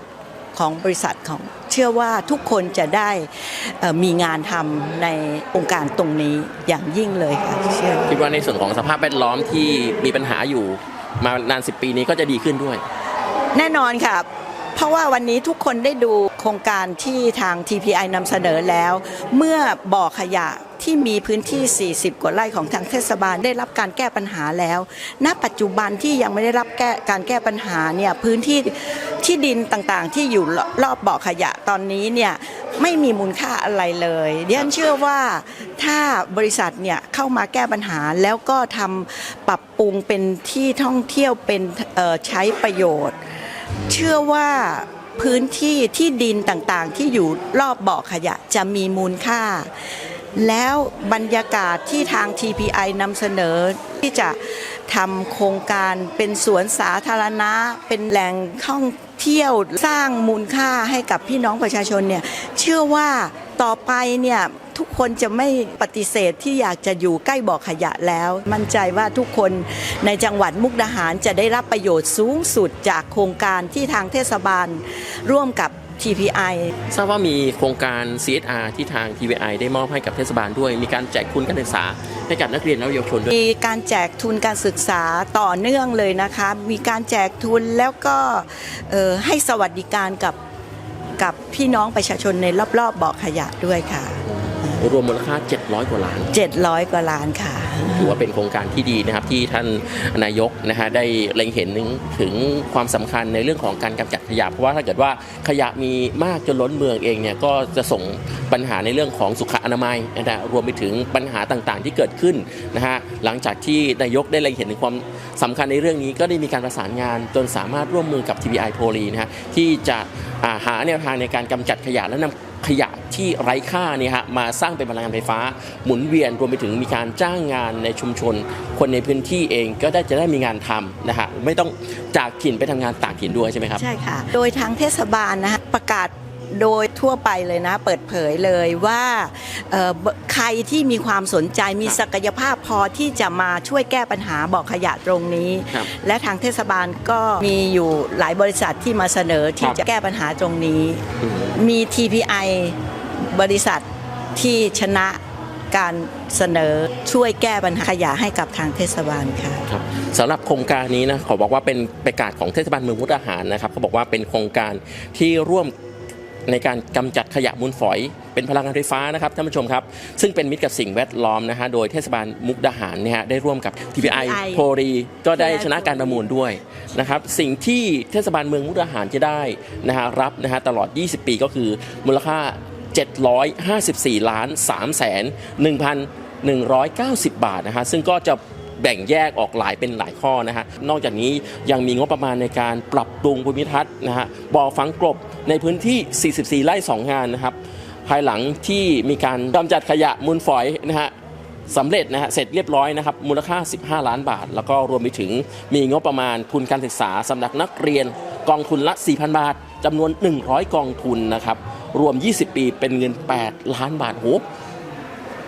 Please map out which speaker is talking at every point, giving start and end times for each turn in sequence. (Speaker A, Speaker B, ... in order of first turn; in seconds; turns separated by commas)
Speaker A: 0.5-8.2, Speaker B: 8.1-12.8, Speaker A: 13.5-43.1, Speaker A: 43.9-49.7, Speaker A: 50.4-76.7, Speaker B: 76.9-83.3, Speaker A: 83.3-90.4, Speaker A: 91.2-94.8, Speaker B: 94.2-96.3, Speaker A: 96.3-98.1, Speaker B: 97.8-133.8, Speaker A: 133.8-151.0, Speaker B: 151.2-151.6, Speaker A: 151.6-153.8, Speaker A: 154.3-155.2, Speaker A: 155.7-159.6, Speaker B: 159.7-165.7, Speaker B: 166.5-201.1, Speaker A: 174.0-174.7, Speaker A: 175.3-176.2, Speaker B: 201.7-214.4